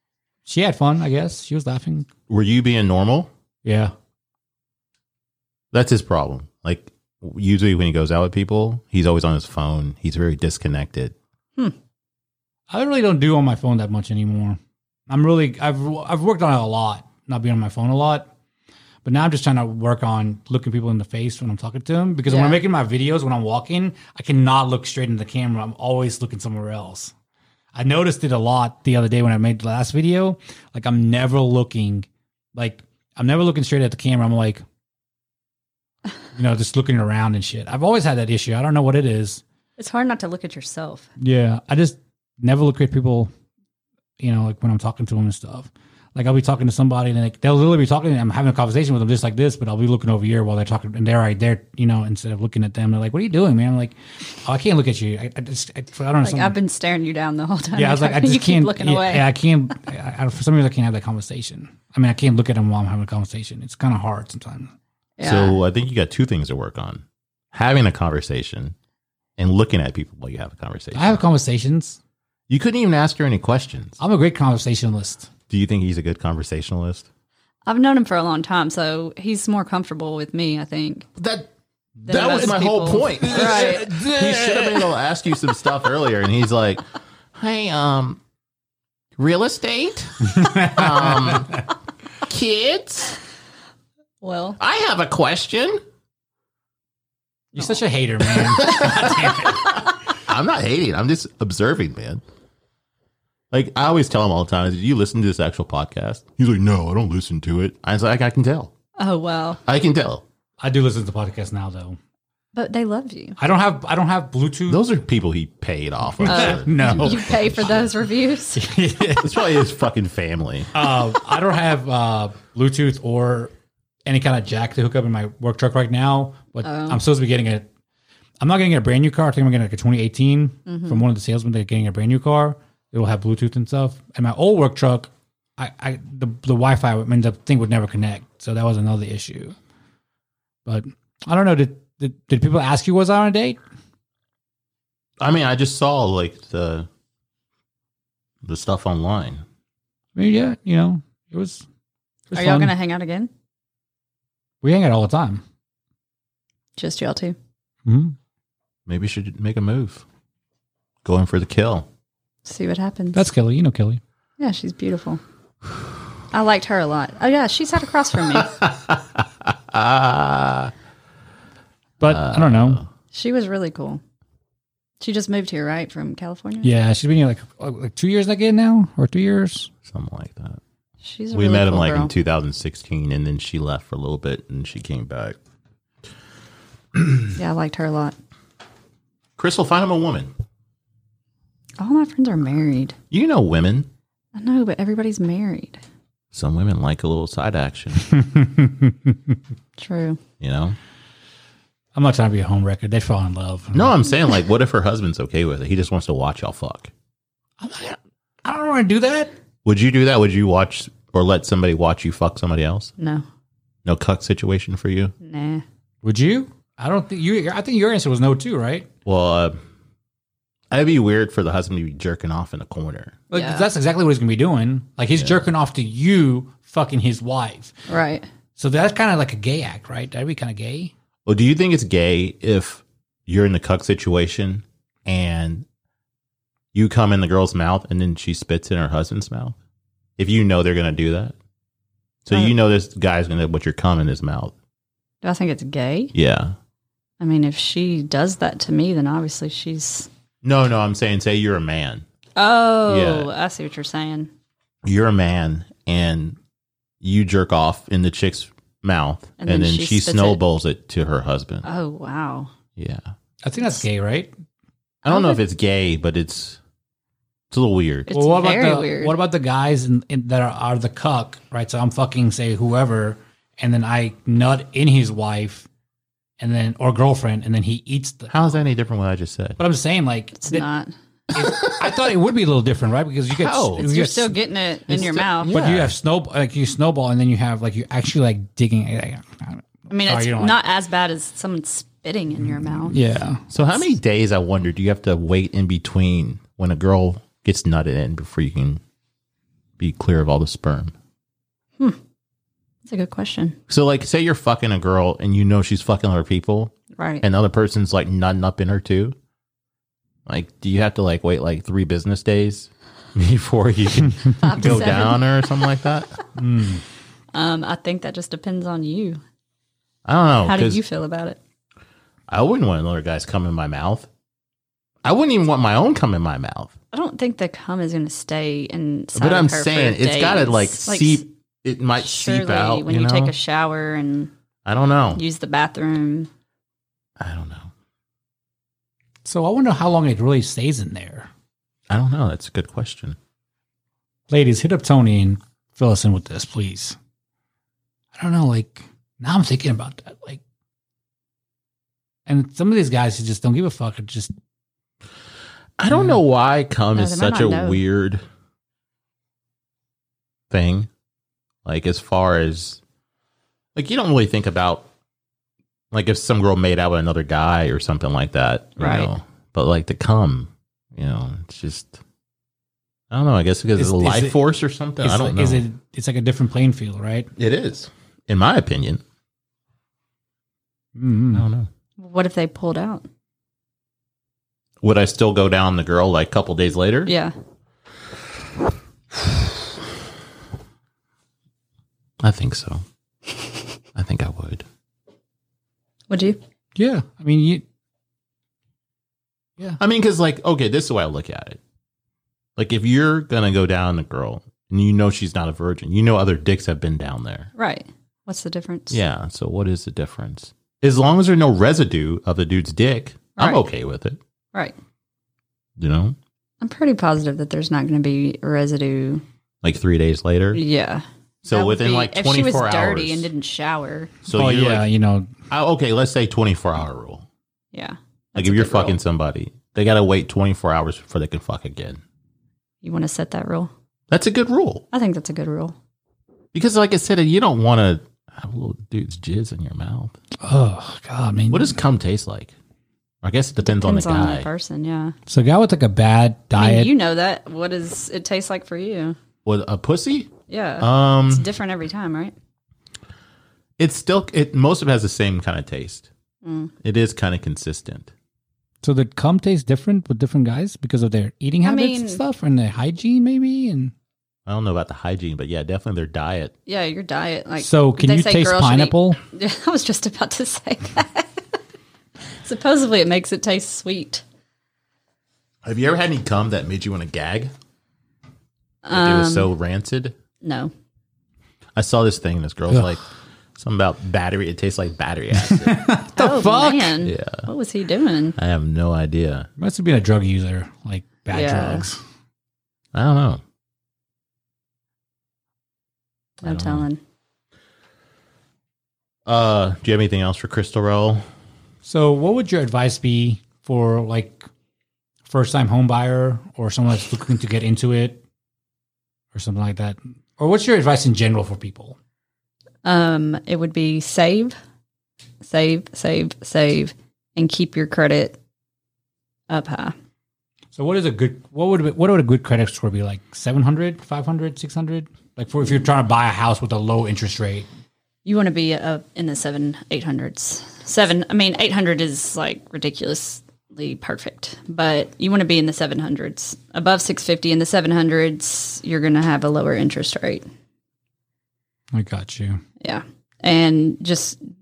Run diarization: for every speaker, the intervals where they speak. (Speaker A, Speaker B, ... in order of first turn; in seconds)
Speaker A: 0.5-2.1, 3.6-3.9, 12.7-18.3, 19.0-27.1, 27.7-34.6, 36.3-39.4, 41.2-43.3, 44.2-56.6, 57.8-64.7, 70.9-72.0, 74.0-75.3, 82.0-84.9, 90.3-91.5, 97.5-99.8, 110.6-112.0, 113.4-114.8, 116.2-117.8, 118.5-119.6, 120.7-123.5, 124.0-127.7, 128.4-139.6, 140.7-143.6, 150.1-151.6, 152.3-152.7, 154.6-155.4, 157.8-158.2, 163.1-164.0, 172.0-172.8, 176.6-179.7, 197.9-199.4, 201.9-203.9, 207.6-209.3, 216.0-218.9, 223.3-227.7, 228.6-230.9, 263.4-264.3, 268.1-275.7, 276.4-278.3, 279.6-280.6, 281.3-284.4, 285.5-290.6, 292.8-293.4, 316.4-316.8, 339.2-341.3, 344.3-347.0, 348.1-350.4, 352.3-354.3, 355.9-356.2, 373.8-374.4, 375.0-377.3, 380.9-381.4, 396.8-397.6, 424.3-425.3, 440.4-441.8, 445.3-446.9, 458.8-463.9, 467.6-469.2, 485.4-487.0, 489.6-492.0, 501.8-504.5, 505.3-508.2, 509.3-512.0, 520.7-527.7, 541.9-542.6
Speaker B: 2.3-3.3, 5.7-11.2, 65.2-68.7, 69.4-71.2, 72.5-74.0, 75.5-77.1, 81.2-81.5, 82.1-86.8, 87.3-88.2, 89.2-91.6, 92.2-93.2, 94.6-95.8, 98.6-99.4, 100.2-102.2, 103.5-108.7, 109.6-110.2, 114.7-117.7, 119.1-120.9, 145.2-146.9, 148.4-149.4, 158.9-160.1, 161.0-161.9, 168.3-170.7, 172.0-172.9, 179.8-180.6, 181.3-185.4, 189.4-190.3, 193.1-193.9, 196.3-198.1, 200.4-200.8, 203.7-206.9, 209.6-212.9, 213.8-215.1, 219.1-219.6, 220.7-223.2, 231.3-235.7, 236.7-239.6, 240.2-241.3, 242.2-244.5, 246.1-246.6, 250.4-252.1, 252.9-253.3, 254.8-256.4, 257.0-261.6, 262.8-263.1, 265.1-266.6, 267.5-268.1, 278.3-279.6, 281.4-281.8, 283.3-283.9, 284.9-285.9, 293.5-298.8, 299.8-300.9, 303.7-309.1, 310.3-316.2, 320.1-320.8, 322.3-324.1, 325.0-326.7, 329.1-333.3, 334.6-335.2, 337.2-337.7, 341.9-343.2, 355.8-358.2, 360.5-360.9, 361.6-362.8, 363.7-364.9, 365.9-372.0, 373.1-375.6, 377.4-379.0, 381.3-381.7, 384.8-387.1, 392.2-392.8, 393.9-394.6, 399.8-401.6, 402.6-407.5, 408.9-414.2, 415.8-416.1, 419.6-420.6, 421.4-423.3, 424.2-424.9, 425.5-427.3, 428.4-432.0, 434.1-434.8, 436.5-440.1, 441.5-442.6, 443.2-444.5, 449.4-451.4, 453.8-456.1, 456.8-458.1, 464.5-466.5, 475.6-477.5, 478.9-480.1, 481.8-483.1, 483.6-485.9, 487.0-487.5, 488.4-489.5, 492.9-493.4, 496.4-496.9, 499.3-501.2
Speaker C: 22.3-22.6, 39.8-41.1, 56.2-59.3, 65.2-65.6, 77.7-81.1, 82.0-83.9, 94.2-94.6, 109.0-109.6, 112.5-113.4, 116.3-118.6, 126.6-127.0, 130.7-131.0, 152.3-153.3, 156.8-157.4, 162.4-163.2, 164.4-165.2, 166.3-168.5, 173.1-174.0, 175.0-176.7, 181.0-182.1, 187.3-188.2, 191.8-192.9, 194.3-195.8, 199.8-200.2, 213.0-213.2, 215.2-215.6, 223.3-223.7, 227.9-228.3, 245.2-246.1, 247.2-250.1, 252.4-254.3, 259.4-260.4, 261.6-262.5, 265.1-265.4, 268.1-269.1, 280.4-280.9, 283.8-285.6, 289.9-292.9, 302.9-303.6, 307.0-307.2, 314.4-315.3, 317.3-319.2, 320.4-321.4, 326.9-331.2, 332.0-334.3, 335.1-336.3, 356.9-357.8, 368.8-369.1, 382.0-383.1, 387.1-387.3, 396.1-396.4, 407.6-409.0, 413.4-413.6, 416.6-419.2, 420.6-424.1, 427.7-429.0, 432.8-433.7, 434.9-435.7, 443.6-445.1, 446.6-449.1, 450.5-452.3, 456.4-456.7, 461.6-462.2, 466.7-471.3, 472.4-474.2, 478.8-479.5, 480.4-480.7, 486.1-488.4, 491.3-491.9, 496.4-497.0, 512.8-514.5, 515.4-518.4, 519.5-519.9, 528.2-540.4, 542.8-544.4